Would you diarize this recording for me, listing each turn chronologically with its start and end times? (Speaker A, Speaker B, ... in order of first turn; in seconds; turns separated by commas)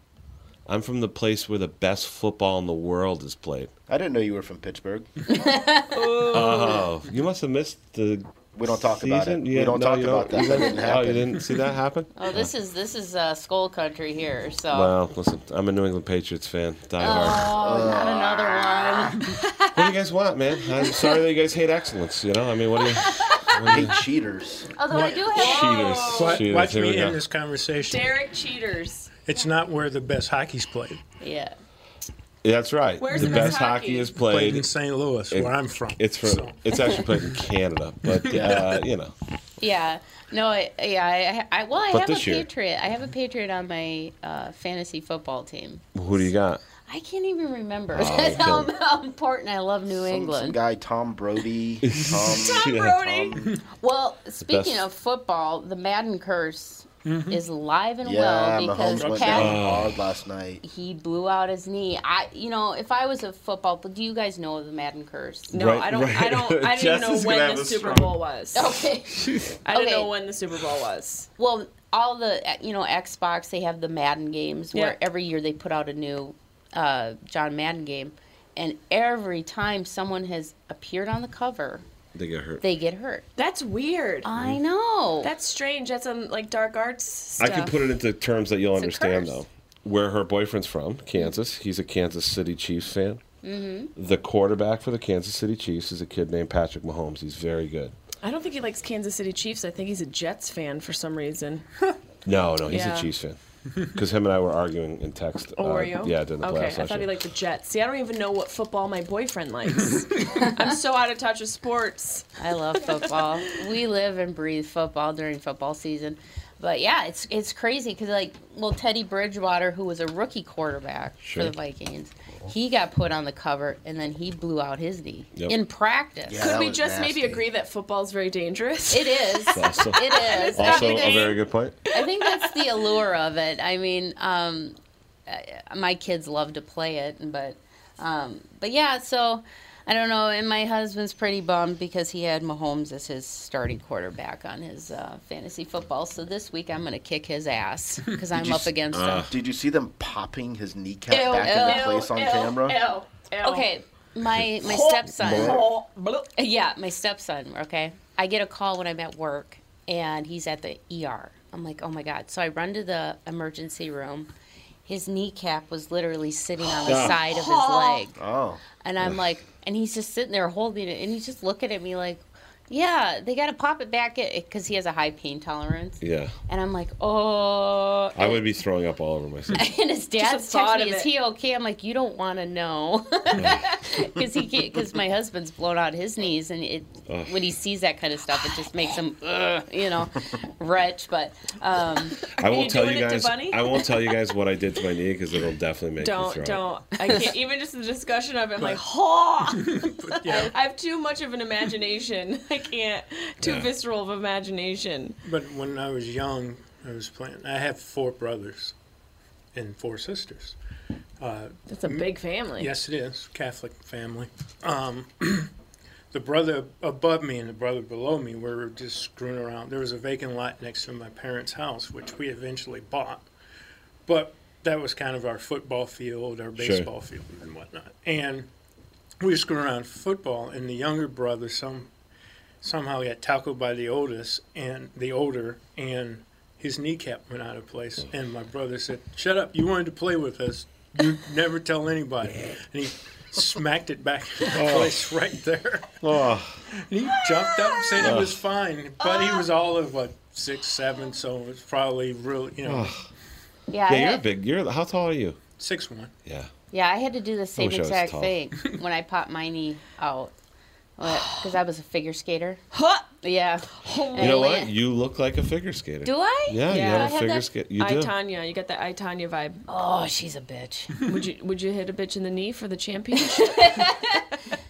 Speaker A: 0.7-3.7, Speaker B: 3.9-5.1, Speaker C: 5.3-6.6, Speaker D: 5.9-6.9, Speaker A: 6.3-12.5, Speaker B: 8.6-11.4, Speaker C: 12.2-14.9, Speaker A: 14.7-17.6, Speaker C: 17.0-19.8, Speaker B: 17.1-19.2, Speaker A: 19.7-24.0, Speaker C: 23.2-23.7, Speaker B: 23.6-24.7, Speaker C: 24.8-26.1, Speaker E: 24.9-25.3, Speaker D: 25.3-26.5, Speaker A: 25.3-27.2, Speaker E: 26.1-28.1, Speaker D: 27.8-29.1, Speaker E: 29.3-31.0, Speaker C: 31.2-31.5, Speaker A: 32.4-34.7, Speaker D: 33.0-34.1, Speaker E: 33.2-33.6, Speaker E: 34.1-36.6, Speaker A: 35.3-39.1, Speaker B: 38.3-38.7, Speaker C: 39.6-46.3, Speaker A: 41.9-42.5, Speaker A: 46.0-46.6, Speaker C: 46.9-50.6, Speaker A: 47.9-48.7, Speaker B: 50.0-53.6, Speaker A: 51.8-53.0, Speaker D: 52.2-53.3, Speaker C: 53.7-59.6, Speaker A: 54.5-54.9, Speaker E: 57.0-57.4, Speaker B: 58.0-60.6, Speaker E: 58.9-59.3, Speaker A: 59.3-60.0, Speaker C: 60.6-65.5, Speaker D: 65.5-68.7, Speaker A: 65.5-68.2, Speaker C: 68.5-70.1, Speaker A: 69.2-69.5, Speaker D: 69.7-71.3, Speaker C: 71.4-81.8, Speaker A: 82.1-82.6, Speaker C: 82.6-83.2, Speaker D: 83.4-84.3, Speaker C: 84.2-85.3, Speaker D: 85.2-87.8, Speaker A: 87.4-93.2, Speaker C: 88.8-89.4, Speaker C: 93.4-93.9, Speaker A: 94.0-97.9, Speaker D: 98.2-101.7, Speaker A: 102.2-107.2, Speaker D: 102.7-103.1, Speaker D: 105.6-112.3, Speaker C: 112.4-126.5, Speaker D: 112.9-113.2, Speaker A: 121.2-121.5, Speaker B: 126.3-127.4, Speaker D: 126.4-131.4, Speaker C: 128.9-131.3, Speaker A: 129.5-131.8, Speaker D: 131.9-132.5, Speaker C: 131.9-134.8, Speaker C: 135.3-149.3, Speaker A: 148.3-149.3, Speaker B: 149.3-152.8, Speaker D: 151.1-153.7, Speaker C: 151.4-152.1, Speaker C: 153.4-155.6, Speaker D: 154.6-156.3, Speaker B: 155.2-155.6, Speaker C: 156.4-164.3, Speaker C: 164.9-168.2, Speaker A: 166.8-167.2, Speaker D: 166.9-168.0, Speaker B: 168.2-168.6, Speaker C: 168.8-178.4, Speaker A: 176.0-176.3, Speaker A: 178.2-179.7, Speaker C: 179.5-192.2, Speaker D: 180.2-181.1, Speaker A: 183.4-183.6, Speaker A: 187.1-187.5, Speaker D: 192.3-193.9, Speaker A: 192.3-196.6, Speaker D: 196.0-205.2, Speaker E: 199.6-200.5, Speaker A: 203.4-203.7, Speaker E: 205.2-208.7, Speaker E: 209.6-210.6, Speaker E: 211.2-212.1, Speaker D: 211.7-212.7, Speaker E: 212.6-215.5, Speaker E: 216.1-223.3, Speaker E: 224.1-228.5, Speaker A: 226.6-226.9, Speaker E: 229.2-231.9, Speaker E: 232.6-246.0, Speaker A: 244.5-245.1, Speaker A: 246.0-246.6, Speaker E: 246.8-252.9, Speaker D: 247.3-248.1, Speaker A: 248.0-248.4, Speaker D: 249.0-249.5, Speaker A: 252.6-253.0, Speaker C: 253.7-254.2, Speaker A: 253.9-255.4, Speaker E: 255.6-256.1, Speaker A: 256.2-256.5, Speaker C: 256.7-260.3, Speaker A: 257.6-258.4, Speaker C: 261.0-262.6, Speaker D: 261.1-261.4, Speaker D: 262.7-263.1, Speaker C: 263.2-264.7, Speaker D: 263.7-264.5, Speaker A: 264.2-268.1, Speaker C: 266.0-267.4, Speaker D: 266.7-269.6, Speaker C: 269.7-270.9, Speaker D: 271.0-273.7, Speaker C: 273.3-274.3